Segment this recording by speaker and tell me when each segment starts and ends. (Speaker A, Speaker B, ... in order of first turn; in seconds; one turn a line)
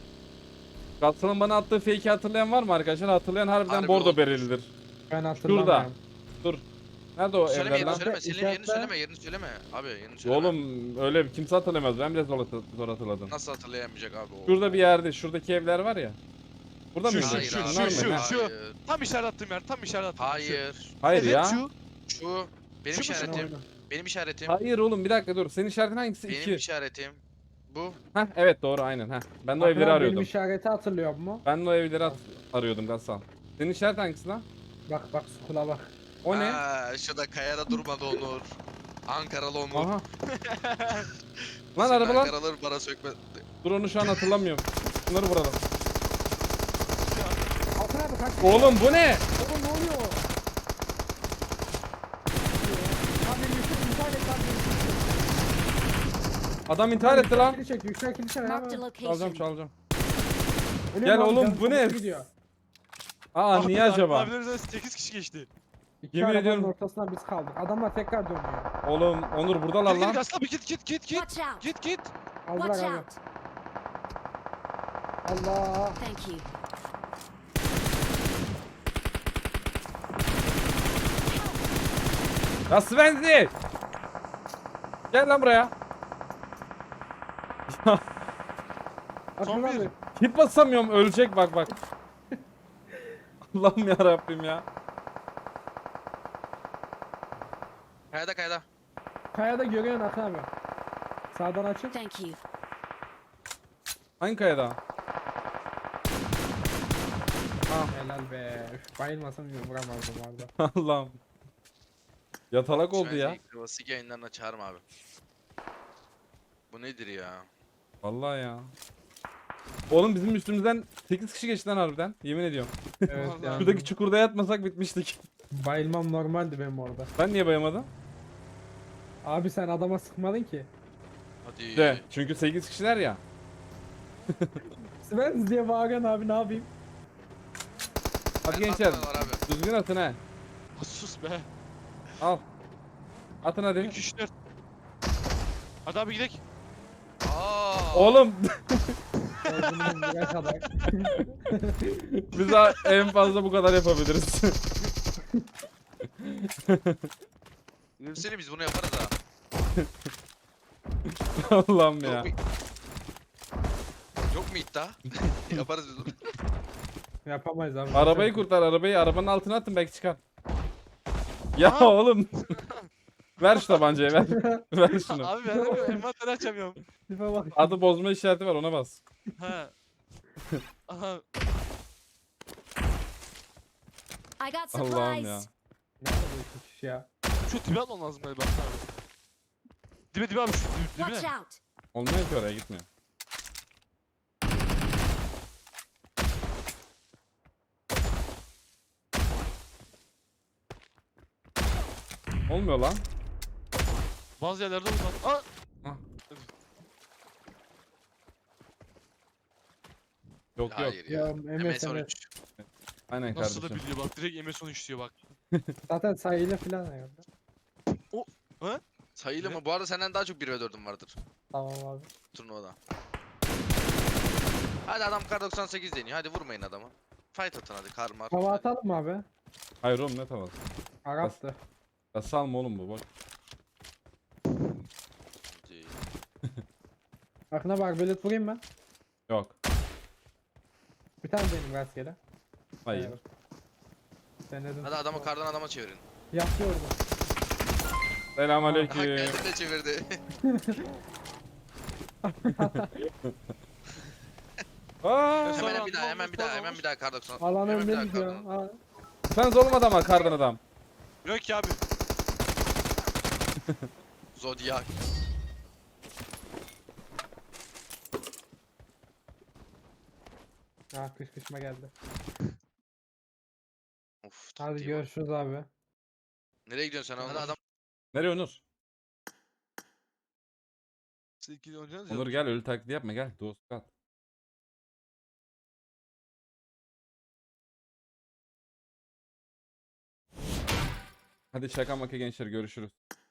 Speaker A: 1.0-4.7
Speaker B: 3.6-4.5
Speaker C: 5.1-6.0
Speaker A: 5.4-5.9
Speaker A: 7.2-8.1
Speaker B: 7.5-10.6
Speaker C: 7.7-9.0
Speaker A: 10.2-13.3
Speaker B: 13.3-14.8
Speaker A: 14.5-16.2
Speaker A: 16.9-18.3
Speaker D: 17.0-21.7
Speaker B: 17.2-18.8
Speaker B: 20.2-21.2
Speaker A: 21.0-21.6
Speaker B: 22.1-24.6
Speaker D: 22.9-23.5
Speaker C: 23.1-23.7
Speaker A: 24.5-26.6
Speaker B: 26.3-28.0
Speaker A: 28.1-30.3
Speaker C: 29.6-31.5
Speaker A: 31.4-34.5
Speaker C: 34.9-35.9
Speaker A: 36.2-36.6
Speaker B: 36.3-39.9
Speaker A: 39.7-40.0
Speaker D: 40.3-41.1
Speaker A: 41.8-42.3
Speaker B: 41.8-43.5
Speaker A: 43.6-45.6
Speaker D: 47.0-47.7
Speaker C: 47.8-50.2
Speaker A: 48.4-49.2
Speaker C: 52.5-55.3
Speaker A: 56.7-57.6
Speaker C: 57.0-58.9
Speaker E: 58.4-59.5
Speaker A: 59.0-59.7
Speaker C: 60.9-62.3
Speaker A: 61.0-62.2
Speaker A: 63.3-64.3
Speaker D: 63.5-65.5
Speaker C: 66.0-68.7
Speaker A: 66.1-66.7
Speaker A: 68.8-70.2
Speaker D: 69.8-72.1
Speaker E: 71.1-71.6
Speaker C: 72.5-73.1
Speaker E: 72.5-73.2
Speaker C: 75.2-76.0
Speaker E: 76.0-76.5
Speaker E: 81.3-81.6
Speaker A: 82.7-83.5
Speaker A: 85.1-85.7
Speaker A: 87.7-88.0
Speaker C: 89.4-90.0
Speaker D: 89.4-89.9
Speaker A: 90.2-91.7
Speaker A: 93.5-94.6
Speaker B: 98.1-98.7
Speaker C: 99.3-100.5
Speaker C: 101.3-102.0
Speaker E: 101.9-102.4
Speaker A: 104.2-104.8
Speaker C: 107.8-110.5
Speaker A: 110.6-111.2
Speaker A: 112.5-113.4
Speaker B: 112.9-114.8
Speaker B: 116.7-117.5
Speaker A: 118.0-118.7
Speaker A: 119.9-125.2
Speaker C: 123.1-123.9
Speaker D: 123.1-123.8
Speaker C: 125.5-127.1
Speaker A: 127.2-127.9
Speaker C: 129.2-130.7
Speaker B: 131.4-132.1
Speaker A: 131.8-133.2
Speaker C: 135.0-136.7
Speaker A: 138.4-140.2
Speaker B: 138.5-139.4
Speaker D: 140.8-141.5
Speaker A: 143.4-144.0
Speaker D: 143.8-144.3
Speaker D: 145.9-146.4
Speaker B: 147.2-148.2
Speaker A: 147.9-148.8
Speaker D: 149.4-150.5
Speaker C: 149.4-152.2
Speaker A: 152.3-154.6
Speaker A: 156.2-157.1
Speaker B: 158.0-159.1
Speaker A: 159.8-160.1
Speaker A: 161.3-162.3
Speaker B: 162.0-162.3
Speaker B: 164.3-166.2
Speaker C: 167.2-168.5
Speaker A: 167.9-170.2
Speaker A: 171.6-172.3
Speaker D: 171.6-172.9
Speaker A: 173.4-175.9
Speaker C: 174.3-174.6
Speaker D: 175.1-176.8
Speaker C: 175.5-176.0
Speaker C: 177.1-177.8
Speaker A: 177.5-179.0
Speaker D: 179.4-179.7
Speaker D: 180.9-181.2
Speaker E: 184.4-185.5
Speaker A: 184.7-185.5
Speaker C: 186.0-187.1
Speaker D: 187.3-188.9
Speaker D: 190.1-191.3
Speaker E: 191.0-191.6
Speaker A: 191.9-192.9
Speaker A: 202.5-203.0
Speaker D: 204.4-205.5
Speaker A: 210.6-211.0
Speaker B: 210.7-212.3
Speaker C: 211.1-212.1
Speaker A: 212.6-213.8
Speaker D: 213.3-215.2
Speaker C: 215.9-217.3
Speaker D: 218.1-218.8
Speaker B: 219.2-221.2
Speaker C: 221.5-222.1
Speaker B: 222.3-222.8
Speaker B: 224.9-228.7
Speaker C: 228.3-229.3
Speaker A: 229.8-231.4
Speaker C: 231.1-231.6
Speaker A: 232.1-233.0
Speaker B: 235.5-235.9
Speaker C: 237.5-238.6
Speaker A: 239.3-239.6
Speaker C: 241.2-242.2
Speaker A: 242.8-243.2
Speaker C: 242.9-243.2
Speaker C: 244.5-245.3
Speaker B: 244.8-246.0
Speaker C: 246.3-247.0
Speaker A: 248.4-249.4
Speaker C: 248.6-248.9
Speaker B: 248.9-250.2
Speaker C: 250.4-250.8
Speaker C: 252.2-253.1
Speaker A: 252.6-253.3
Speaker A: 255.0-255.8
Speaker D: 255.4-256.8
Speaker B: 255.5-258.5
Speaker C: 257.4-258.8
Speaker A: 259.3-260.6
Speaker D: 261.2-261.8
Speaker B: 264.4-265.0
Speaker C: 270.9-271.9
Speaker B: 274.2-275.1
Speaker C: 274.6-275.7
Speaker B: 276.7-277.6
Speaker D: 277.2-277.6
Speaker A: 278.1-278.6
Speaker D: 281.4-282.4
Speaker A: 282.1-283.9
Speaker A: 291.5-292.9